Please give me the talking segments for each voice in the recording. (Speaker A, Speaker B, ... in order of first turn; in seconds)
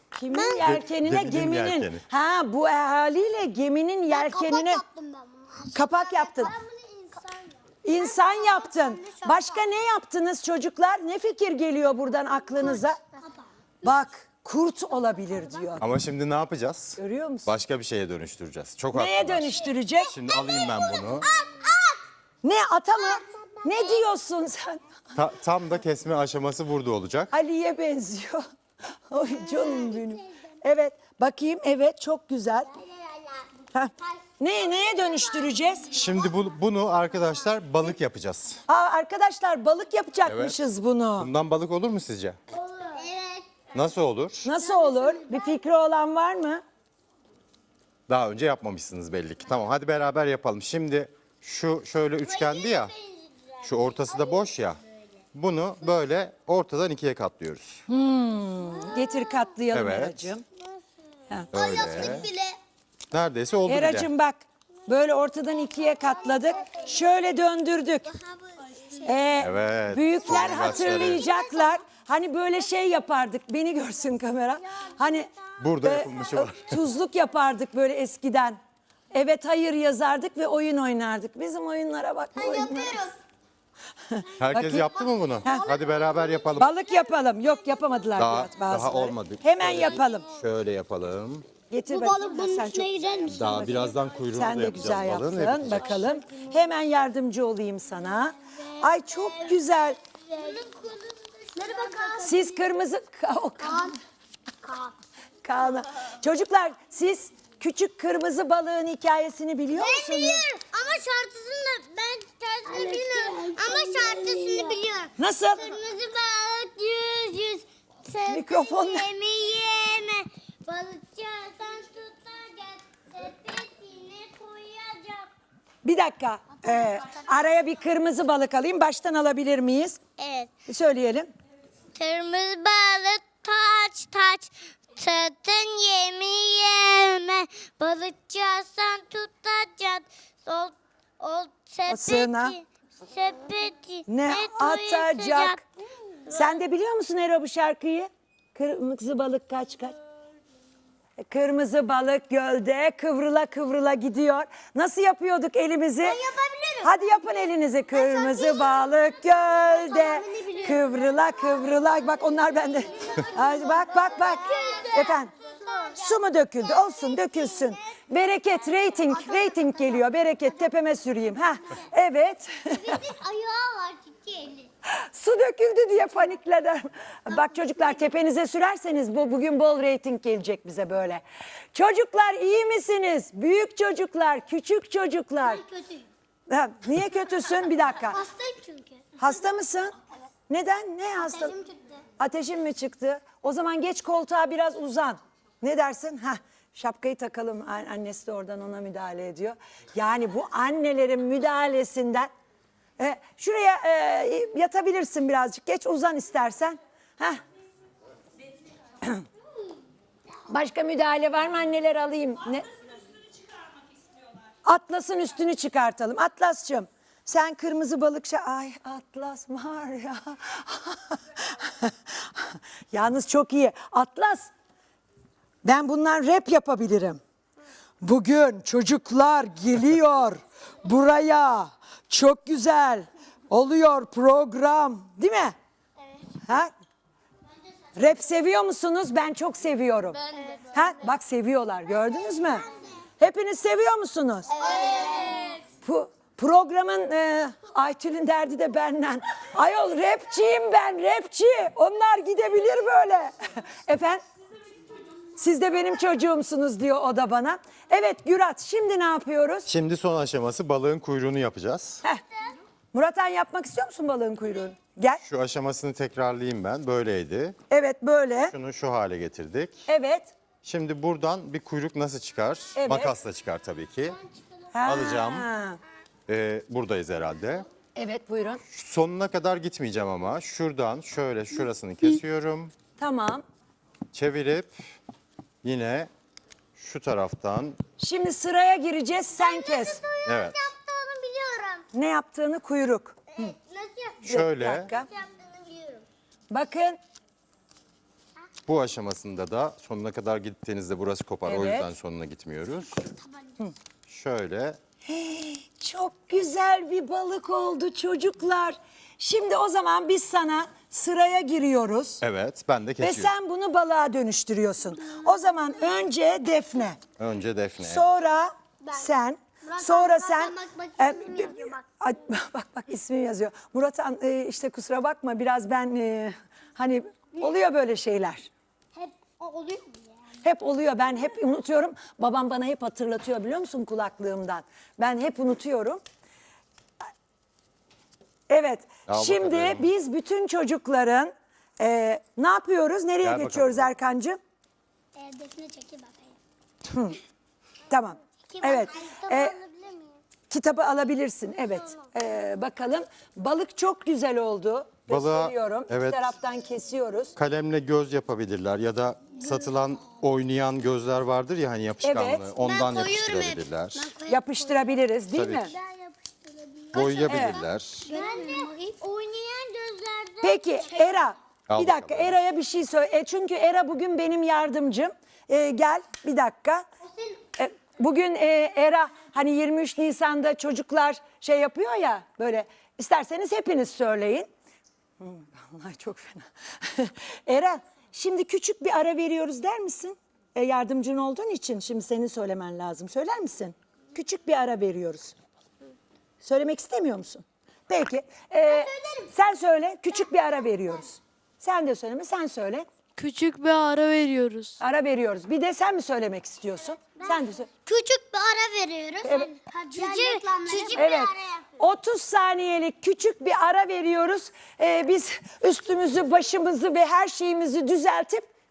Speaker A: 0.1-4.8, 5.7-6.5, 7.8-13.0, 13.8-15.8, 17.0-17.5, 18.9-20.1, 22.4-24.8, 27.3-28.4, 29.1-32.7, 33.7-35.9, 38.7-41.3, 44.4-46.6, 57.9-60.4, 63.7-68.1, 69.0-75.3, 75.8-78.6, 79.1-83.1, 84.1-84.9, 86.6-90.3, 91.7-100.0, 102.2-104.0, 105.4-110.4, 113.7-114.2, 115.2-115.7, 118.3-119.1, 125.8-130.0, 130.7-131.3, 141.9-142.6, 144.1-145.6, 146.3-149.9, 151.2-156.2, 156.8-165.3, 165.9-173.1, 174.8-185.6, 186.5-188.2, 189.2-189.9, 190.5-191.6, 192.2-202.3, 203.0-207.4, 210.5-212.7, 214.6-224.5, 225.6-227.2, 228.0-235.6, 236.4-236.7, 237.9-240.2, 240.7-242.7, 243.2-244.6, 245.8-254.2, 255.3-259.7, 262.9-265.2, 267.7-268.5, 269.9-270.3, 272.8-273.1, 274.7-275.8, 277.9-278.6, 283.0-283.4, 288.0-290.0, 291.9-293.5, 294.2-295.1, 296.5-297.0, 301.5-301.9, 305.0-312.2, 313.0-317.0, 317.8-328.5, 330.4-336.0, 338.5-344.4, 346.9-347.2, 347.9-349.5, 350.5-357.3, 362.0-362.5, 364.3-365.7, 367.3-367.6, 370.4-376.9, 377.6-384.5, 385.2-395.4, 396.4-402.9, 404.8-407.7, 409.2-409.5, 410.9-418.5
Speaker B: 0.3-0.6, 4.1-9.6, 12.7-13.4, 20.3-22.0, 23.1-23.9, 29.5-30.1, 32.7-33.4, 34.0-36.1, 42.5-43.6, 44.6-45.5, 52.3-53.5, 61.5-62.6, 68.1-69.1, 70.5-71.7, 82.4-83.1, 85.4-86.5, 91.9-93.5, 98.8-99.5, 100.3-102.6, 104.6-104.9, 109.7-125.3, 130.2-130.5, 131.9-145.6, 146.1-146.4, 156.0-156.9, 157.9-161.4, 162.9-167.9, 172.7-174.7, 185.5-186.1, 187.9-189.0, 191.2-192.0, 240.3-240.8, 244.5-245.6, 289.4-291.9, 293.4-294.2, 294.9-296.0, 319.6-321.8, 328.9-330.1, 345.1-346.4, 348.5-350.2, 362.6-367.5, 368.0-371.2, 377.0-377.4, 398.6-399.3, 407.2-411.6
Speaker C: 0.6-2.0, 15.8-21.3, 25.1-27.3, 35.9-38.6, 40.2-40.6, 41.2-42.4, 43.7-44.5, 48.1-52.9, 53.6-54.8, 55.3-57.8, 59.7-60.3, 61.5-62.2, 63.1-64.1, 69.4-71.2, 75.6-76.8, 84.4-86.7, 88.1-91.5, 93.3-96.1, 259.7-262.0, 265.2-267.6, 268.5-269.9, 270.6-274.2, 274.8-275.5, 276.3-277.7, 278.7-282.7, 284.1-284.9, 285.6-286.1, 286.8-287.8, 290.2-290.6, 294.2-294.9, 298.6-303.1, 304.1-304.8, 312.2-313.3, 317.2-318.1, 339.1-339.9, 343.2-343.9, 355.1-356.3, 357.4-364.1, 365.3-365.7, 366.9-368.1, 371.7-372.4
Speaker D: 403.1-404.8, 409.9-411.0